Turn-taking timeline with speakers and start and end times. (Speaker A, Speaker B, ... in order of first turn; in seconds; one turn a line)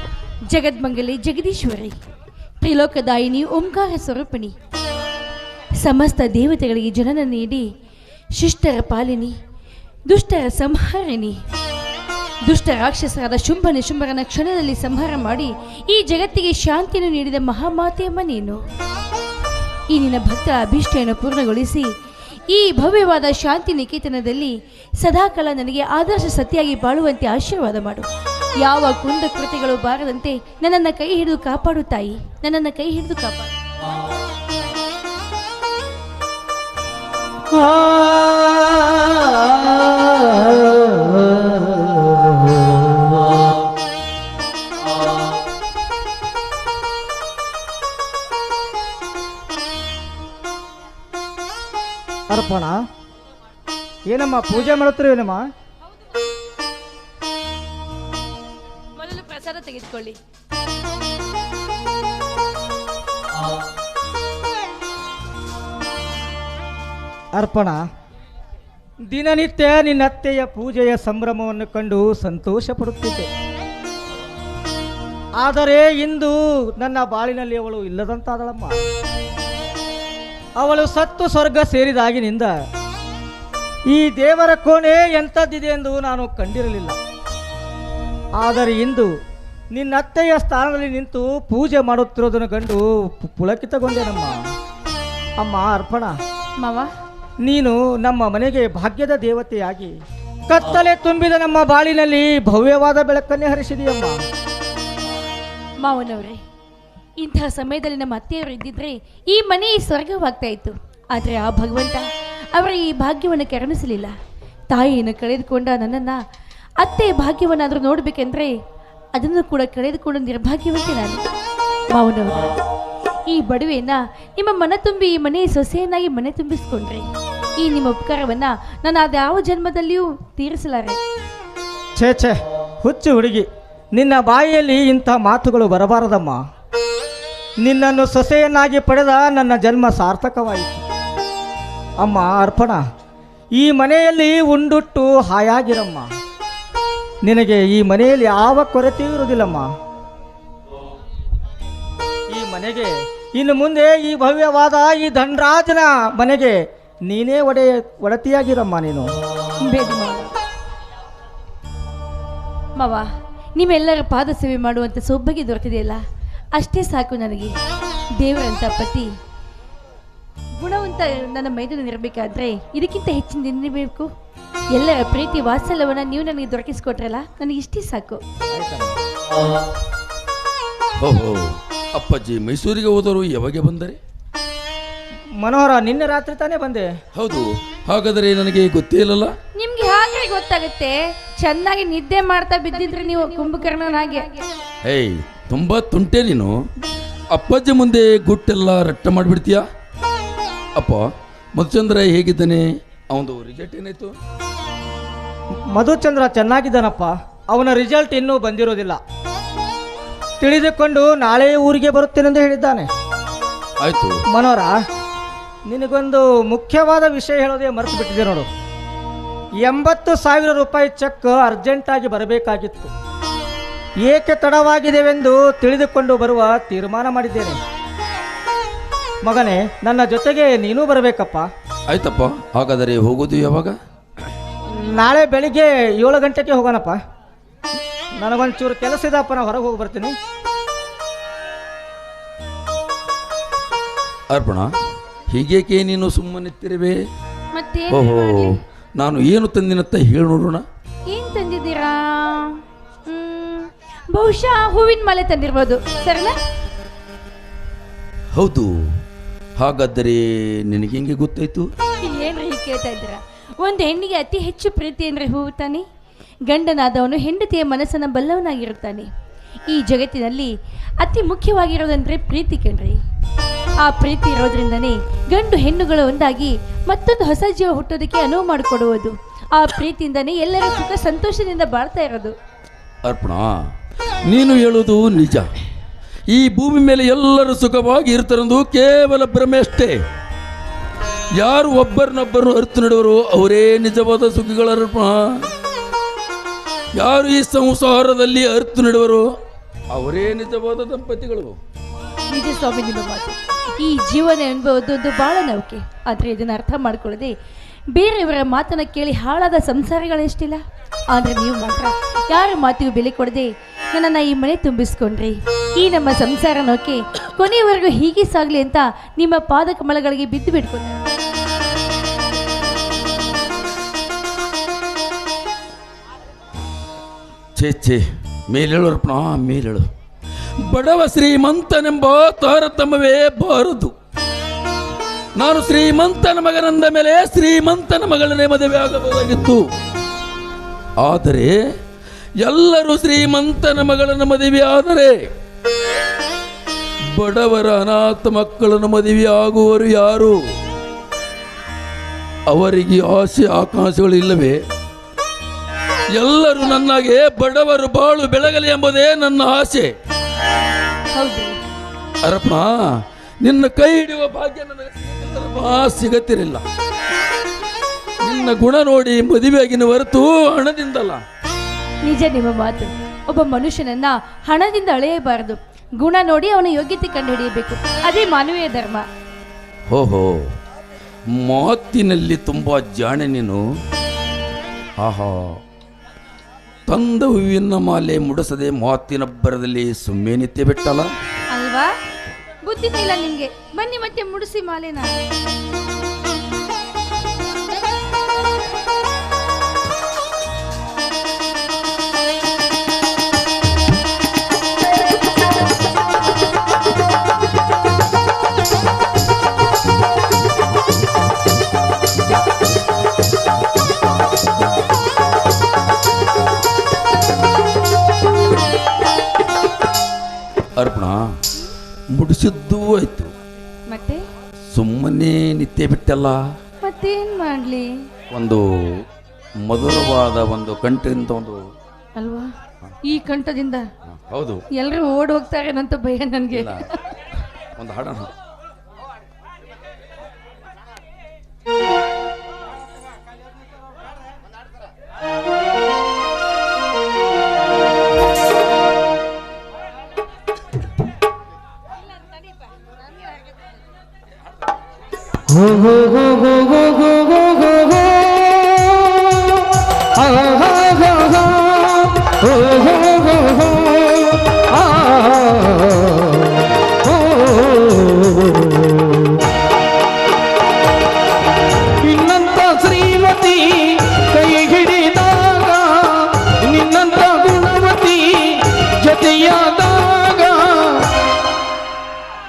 Speaker A: 0.5-1.9
Speaker A: 2.6-4.5
Speaker A: 5.8-7.7
Speaker A: 8.4-9.3
Speaker A: 10.1-11.4
Speaker A: 12.4-18.6
Speaker A: 19.9-21.9
Speaker A: 22.5-28.1
Speaker A: 28.6-33.5
Speaker B: 37.7-38.2
Speaker C: 52.3-52.8
Speaker C: 54.1-55.4
Speaker A: 59.0-60.2
Speaker C: 67.4-67.8
Speaker C: 69.1-73.3
Speaker C: 75.4-78.8
Speaker C: 80.6-82.5
Speaker C: 83.9-87.0
Speaker C: 88.4-89.1
Speaker C: 89.7-94.4
Speaker C: 95.4-96.1
Speaker A: 96.6-96.9
Speaker C: 97.4-100.0
Speaker C: 100.5-104.2
Speaker A: 105.8-106.4
Speaker A: 107.2-114.1
Speaker A: 114.7-116.2
Speaker A: 116.8-118.6
Speaker A: 119.2-121.2
Speaker A: 121.9-122.5
Speaker A: 123.3-127.1
Speaker A: 127.6-131.0
Speaker C: 132.0-136.4
Speaker C: 137.6-140.8
Speaker C: 142.0-142.8
Speaker C: 143.6-146.1
Speaker C: 147.2-149.7
Speaker C: 152.3-159.1
Speaker A: 159.6-160.4
Speaker A: 162.8-166.0
Speaker A: 166.5-167.5
Speaker A: 168.2-169.1
Speaker A: 170.6-174.1
Speaker A: 174.7-178.2
Speaker C: 178.5-179.0
Speaker D: 181.0-184.0
Speaker C: 185.4-186.9
Speaker D: 187.2-189.3
Speaker A: 189.6-194.5
Speaker D: 194.8-196.5
Speaker D: 197.3-199.6
Speaker D: 200.8-201.0
Speaker D: 201.6-204.1
Speaker C: 205.7-209.0
Speaker C: 210.4-212.9
Speaker D: 213.8-214.2
Speaker C: 214.3-214.8
Speaker C: 215.7-218.5
Speaker C: 219.6-222.9
Speaker C: 224.1-227.6
Speaker C: 229.2-231.5
Speaker D: 231.9-233.8
Speaker C: 234.7-237.0
Speaker C: 238.2-240.1
Speaker D: 244.3-244.7
Speaker D: 245.3-247.0
Speaker A: 247.5-248.5
Speaker D: 247.9-250.6
Speaker A: 251.1-256.4
Speaker D: 258.4-258.7
Speaker D: 259.6-261.7
Speaker A: 262.0-265.9
Speaker A: 266.5-269.1
Speaker A: 269.7-273.0
Speaker A: 273.8-282.3
Speaker D: 283.0-283.6
Speaker D: 284.3-285.5
Speaker D: 286.3-290.0
Speaker D: 291.4-295.2
Speaker D: 297.0-299.2
Speaker D: 299.9-301.6
Speaker A: 302.3-307.3
Speaker A: 307.9-321.0
Speaker D: 327.6-329.9
Speaker D: 330.7-333.9
Speaker D: 335.4-339.6
Speaker D: 341.0-341.6
Speaker D: 342.4-345.2
Speaker D: 347.1-350.4
Speaker D: 352.5-354.6
Speaker D: 356.1-359.9
Speaker A: 361.1-361.6
Speaker D: 362.2-362.8
Speaker D: 363.4-366.6
Speaker D: 368.2-371.2
Speaker A: 372.0-379.0
Speaker D: 379.9-380.4
Speaker D: 381.4-383.6
Speaker D: 385.0-385.6
Speaker D: 386.9-391.1
Speaker A: 391.5-391.9
Speaker A: 392.6-395.1
Speaker D: 420.8-421.2
Speaker D: 422.1-423.3
Speaker A: 423.9-424.2
Speaker D: 424.7-426.4
Speaker A: 426.8-427.9
Speaker D: 428.3-429.0
Speaker D: 429.6-431.6
Speaker A: 432.1-432.5
Speaker A: 433.0-433.9
Speaker D: 434.1-434.6
Speaker A: 434.7-436.9
Speaker D: 436.5-436.8
Speaker D: 437.8-438.3
Speaker B: 455.5-469.5
Speaker B: 472.0-481.2